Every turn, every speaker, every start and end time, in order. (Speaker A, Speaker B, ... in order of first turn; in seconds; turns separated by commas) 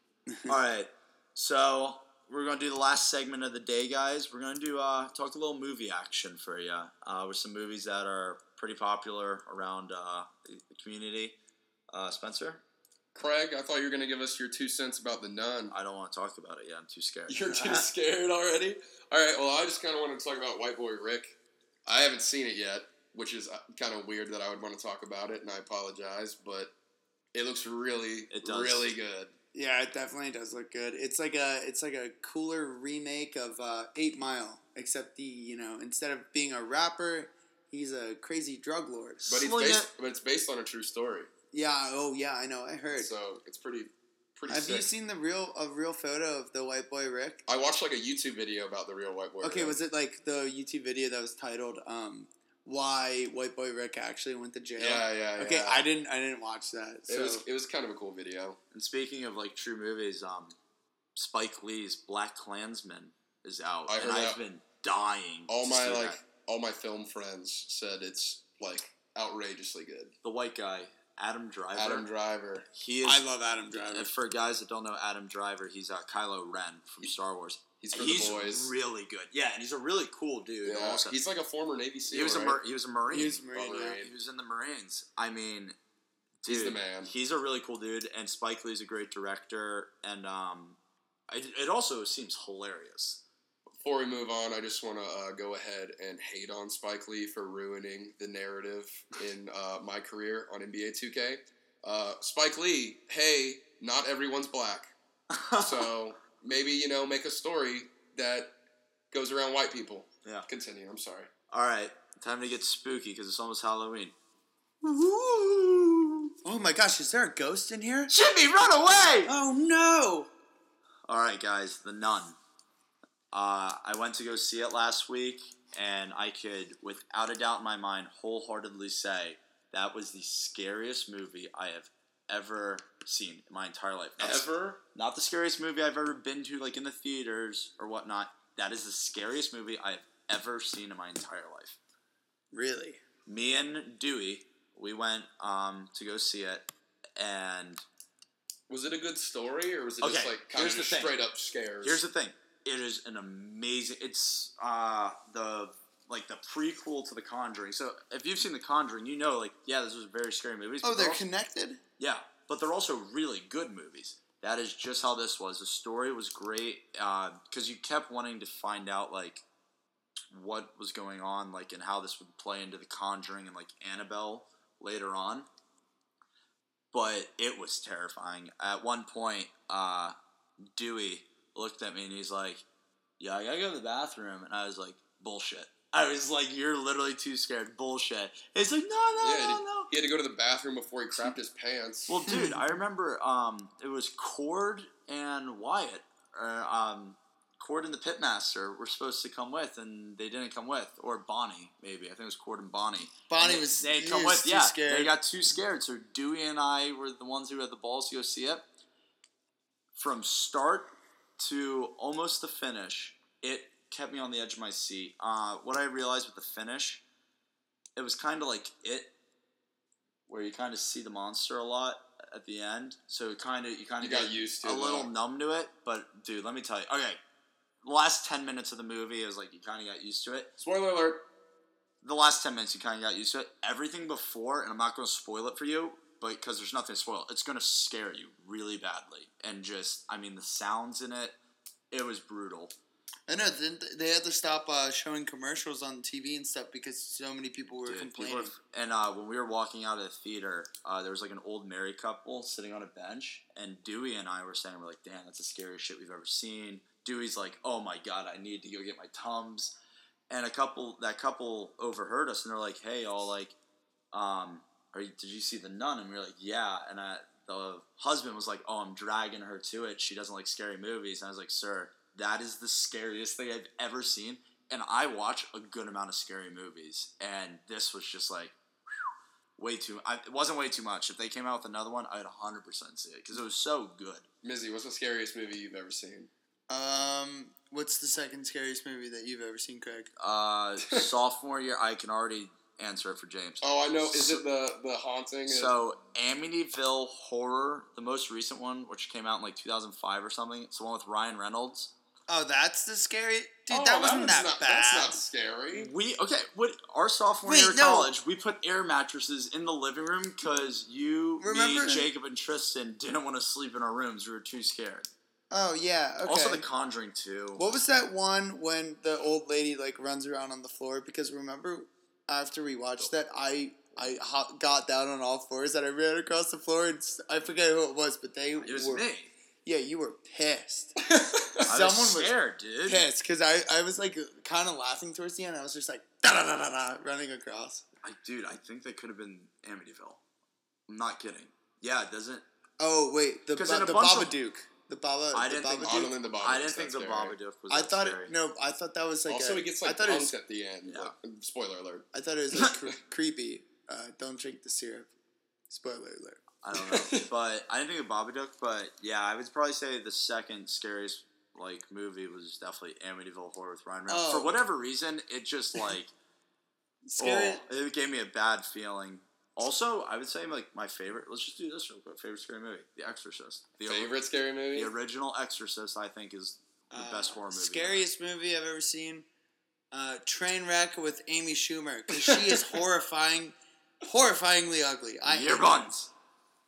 Speaker A: 0.5-11.4, Speaker A: 11.9-12.6, Speaker B: 13.2-15.7, Speaker A: 15.7-17.9, Speaker B: 17.3-26.7, Speaker B: 27.3-29.3, Speaker A: 28.3-29.0, Speaker C: 29.5-39.2, Speaker A: 39.2-39.9, Speaker B: 39.3-41.3, Speaker C: 41.5-43.1, Speaker B: 42.9-44.9, Speaker C: 44.5-47.4, Speaker B: 47.5-49.8, Speaker C: 49.4-57.4, Speaker B: 54.8-55.9, Speaker B: 57.1-58.6, Speaker A: 58.7-60.6, Speaker A: 61.1-66.2, Speaker B: 63.9-64.4, Speaker B: 65.5-70.2, Speaker A: 70.2-72.1, Speaker B: 71.8-72.7, Speaker A: 72.7-81.2, Speaker C: 73.0-74.1, Speaker B: 77.8-78.7, Speaker B: 80.6-82.6, Speaker A: 82.1-83.4, Speaker C: 83.1-84.0, Speaker B: 83.5-84.1, Speaker A: 83.9-85.8, Speaker A: 86.4-90.8, Speaker B: 86.5-87.1, Speaker A: 91.3-93.2, Speaker B: 93.8-104.9, Speaker A: 105.3-105.9, Speaker B: 105.6-108.5, Speaker B: 109.1-111.3, Speaker A: 111.5-114.2, Speaker A: 114.8-116.3, Speaker C: 116.4-118.1, Speaker A: 118.1-119.3, Speaker C: 119.3-120.3, Speaker A: 121.1-122.4, Speaker A: 123.3-141.8, Speaker B: 134.2-134.8, Speaker C: 142.5-143.0, Speaker A: 143.3-147.8, Speaker B: 148.7-152.0, Speaker A: 150.0-151.2, Speaker A: 151.8-161.2, Speaker C: 160.8-161.8, Speaker A: 162.0-169.4, Speaker A: 170.3-175.5, Speaker A: 176.9-182.6, Speaker A: 183.2-189.9, Speaker B: 189.2-192.3, Speaker A: 192.1-208.7, Speaker C: 192.3-192.7, Speaker C: 203.3-205.2, Speaker A: 209.9-217.0, Speaker A: 218.0-219.1, Speaker A: 220.3-227.2, Speaker B: 224.0-225.1, Speaker A: 227.8-230.5, Speaker B: 230.6-231.2, Speaker A: 232.0-241.4, Speaker A: 241.9-242.7, Speaker C: 243.3-248.6, Speaker A: 247.8-259.8, Speaker A: 260.3-263.6, Speaker A: 264.1-278.6, Speaker A: 279.6-284.3, Speaker B: 284.4-286.3, Speaker C: 286.7-290.1, Speaker A: 290.2-294.4, Speaker B: 293.6-295.7, Speaker A: 295.5-301.9, Speaker C: 302.3-305.2, Speaker B: 303.7-305.9, Speaker A: 305.7-315.1, Speaker C: 307.4-308.1, Speaker C: 311.4-312.1, Speaker C: 315.5-316.6, Speaker A: 316.2-317.7, Speaker C: 317.6-329.1, Speaker A: 328.6-329.3, Speaker C: 329.6-331.0, Speaker B: 331.1-331.7, Speaker C: 331.6-337.9, Speaker A: 331.6-333.1, Speaker A: 338.0-340.2, Speaker A: 340.9-342.4, Speaker C: 342.8-346.1, Speaker A: 343.6-344.4, Speaker A: 345.3-348.3, Speaker B: 345.8-347.4, Speaker C: 347.7-350.3, Speaker B: 349.3-352.1, Speaker A: 350.9-351.1, Speaker C: 352.1-355.1, Speaker C: 355.7-356.4, Speaker A: 356.6-366.1, Speaker B: 356.8-357.3, Speaker C: 364.1-364.6, Speaker C: 367.1-367.6, Speaker A: 367.2-374.1, Speaker B: 373.9-374.9, Speaker A: 374.7-378.1, Speaker C: 376.9-379.3, Speaker C: 379.9-386.0, Speaker B: 382.2-382.8, Speaker A: 385.3-386.1